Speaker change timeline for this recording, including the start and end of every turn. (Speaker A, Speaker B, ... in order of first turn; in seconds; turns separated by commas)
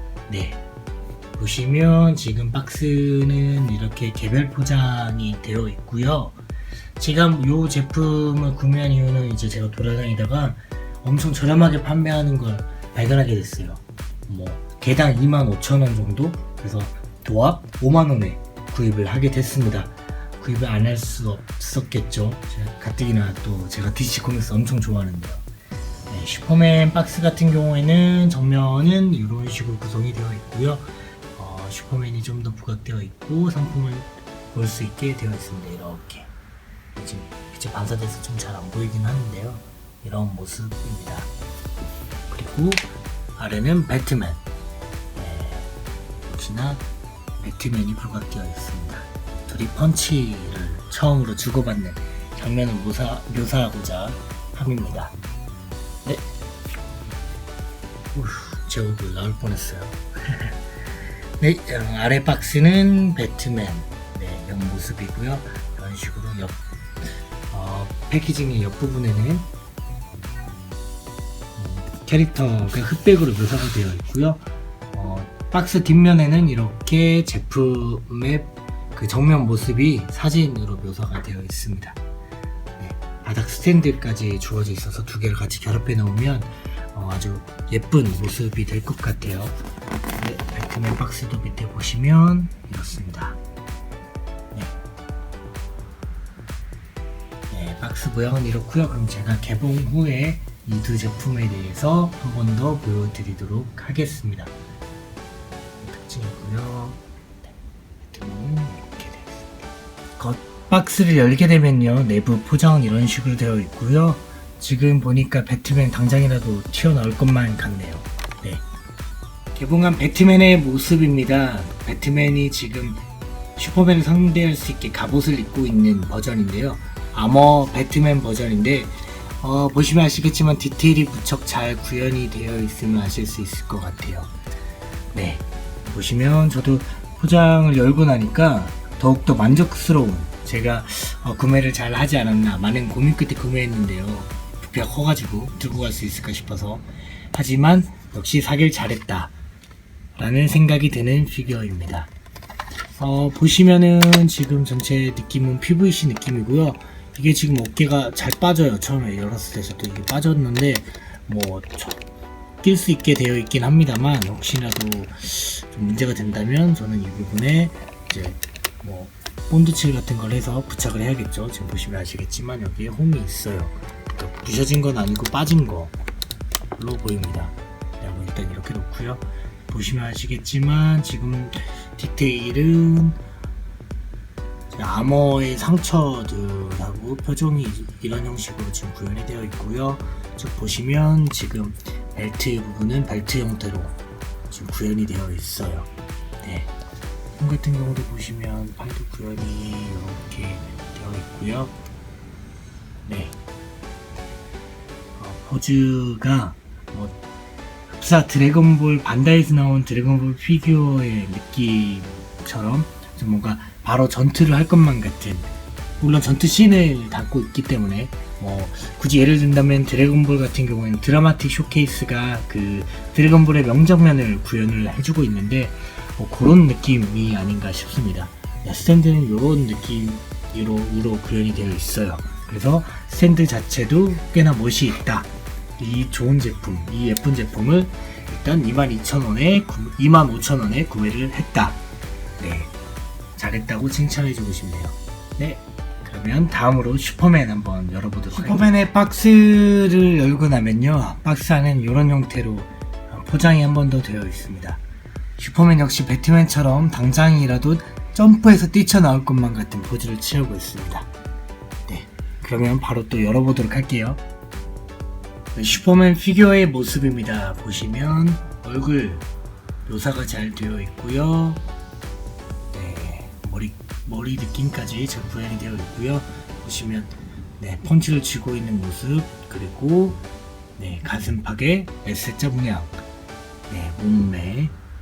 Speaker A: 0.3-0.6, Speaker A: 1.4-6.4, Speaker A: 7.0-25.4, Speaker A: 26.1-36.3, Speaker A: 36.9-41.3, Speaker A: 42.3-44.4, Speaker A: 45.1-45.7, Speaker A: 46.2-46.9, Speaker A: 47.4-55.1, Speaker A: 58.1-60.6, Speaker A: 61.4-66.6, Speaker A: 67.5-69.5, Speaker A: 71.5-82.0, Speaker A: 82.8-89.5, Speaker A: 90.2-93.4, Speaker A: 97.5-104.5, Speaker A: 105.8-107.5, Speaker A: 108.0-118.6, Speaker A: 119.5-123.0, Speaker A: 123.5-134.3, Speaker A: 135.1-149.3, Speaker A: 150.2-152.1, Speaker A: 152.9-162.0, Speaker A: 162.6-175.9, Speaker A: 176.8-183.2, Speaker A: 184.7-193.9, Speaker A: 194.5-195.9, Speaker A: 196.4-196.7, Speaker A: 197.3-201.7, Speaker A: 203.1-203.3, Speaker A: 205.2-207.2, Speaker A: 207.9-241.8, Speaker A: 242.4-242.7, Speaker A: 243.3-254.8, Speaker A: 255.4-261.1, Speaker A: 261.9-264.2, Speaker A: 265.5-269.2, Speaker A: 269.9-271.6, Speaker A: 272.7-280.2, Speaker A: 280.8-283.0, Speaker A: 283.7-284.7